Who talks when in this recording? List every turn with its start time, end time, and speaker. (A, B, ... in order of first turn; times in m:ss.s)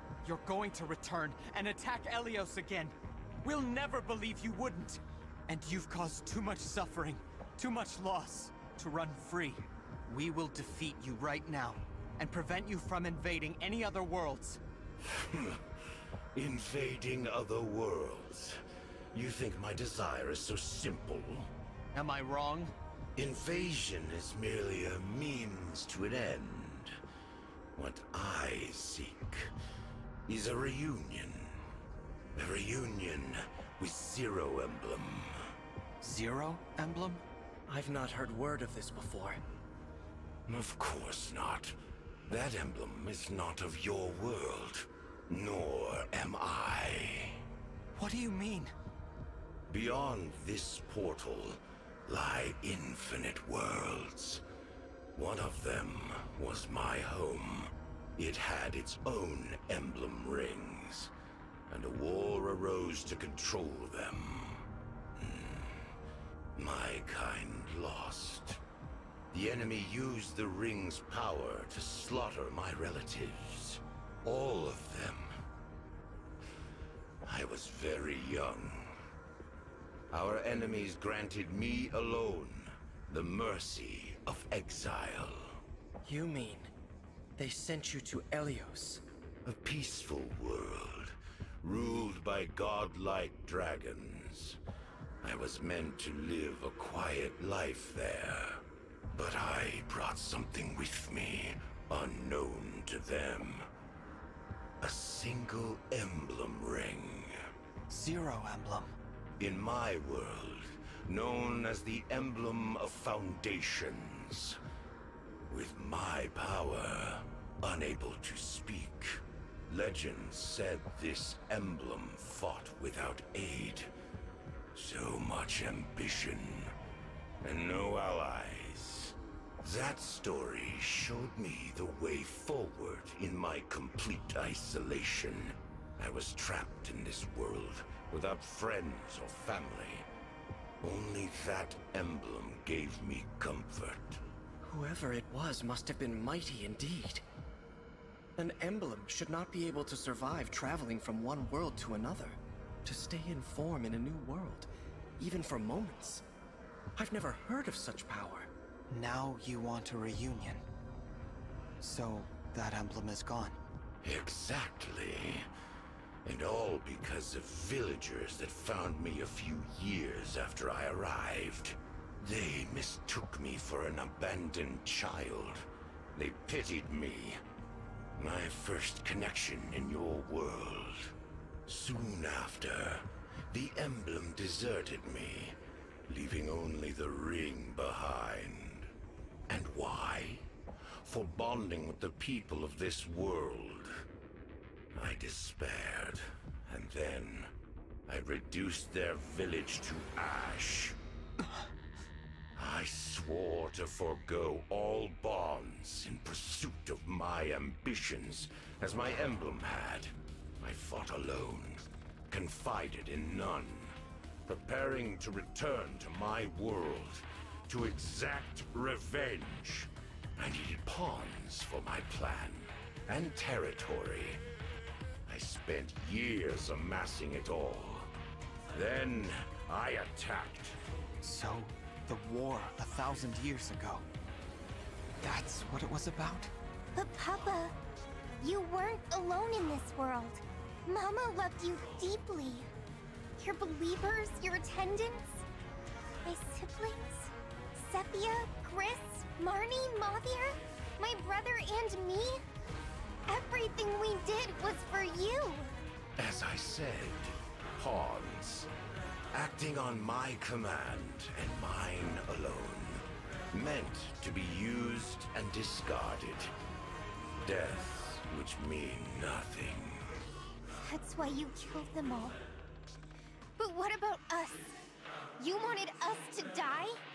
0:00.2-0:14.6 A
0:15.1-0:15.7 B
0:16.3-0:18.6 B
0:19.1-0:21.5 B
0:21.9-0:22.7 A
0:23.2-0:27.0 B
0:27.8-0:29.5 B
0:30.3-0:31.6 B
0:32.4-0:35.4 B
0:36.0-0:37.2 A
0:37.7-0:39.4 C
0:40.5-0:41.8 B
0:42.3-0:47.4 B
0:48.0-0:48.7 A
0:49.7-0:54.4 B
0:55.1-1:01.1 B
1:01.7-1:05.8 B
1:06.6-1:08.6 B
1:09.3-1:15.4 B
1:17.2-1:18.9 B
1:20.1-1:25.5 B
1:26.0-1:26.7 C
1:27.4-1:29.0 C
1:29.4-1:34.6 B
1:35.2-1:43.7 B
1:44.8-1:47.4 B
1:47.9-1:48.9 A
1:49.4-1:54.6 B
1:55.5-2:03.9 B
2:04.7-2:06.7 B
2:07.4-2:20.1 B
2:20.8-2:24.2 B
2:24.6-2:27.2 C
2:28.4-2:36.2 C
2:37.0-2:38.5 C
2:38.9-2:40.6 A
2:41.8-2:43.6 A
2:44.0-2:45.5 B
2:46.2-2:57.4 B
2:58.2-3:01.1 B
3:01.7-3:08.9 B
3:09.5-3:10.5 B
3:11.0-3:14.0 B
3:14.9-3:17.5 B
3:18.1-3:21.0 B
3:22.6-3:44.4 B
3:45.3-3:48.1 B
3:48.7-3:50.8 B
3:51.2-3:54.0 A
3:55.2-3:56.5 A
3:57.0-3:57.8 D
3:58.4-4:02.7 D
4:03.4-4:05.4 D
4:06.2-4:12.4 D
4:13.3-4:15.7 D
4:16.2-4:18.7 B
4:19.3-4:26.5 B
4:27.4-4:30.2 B
4:30.8-4:32.4 D
4:33.6-4:34.7 D
4:35.4-4:37.0 D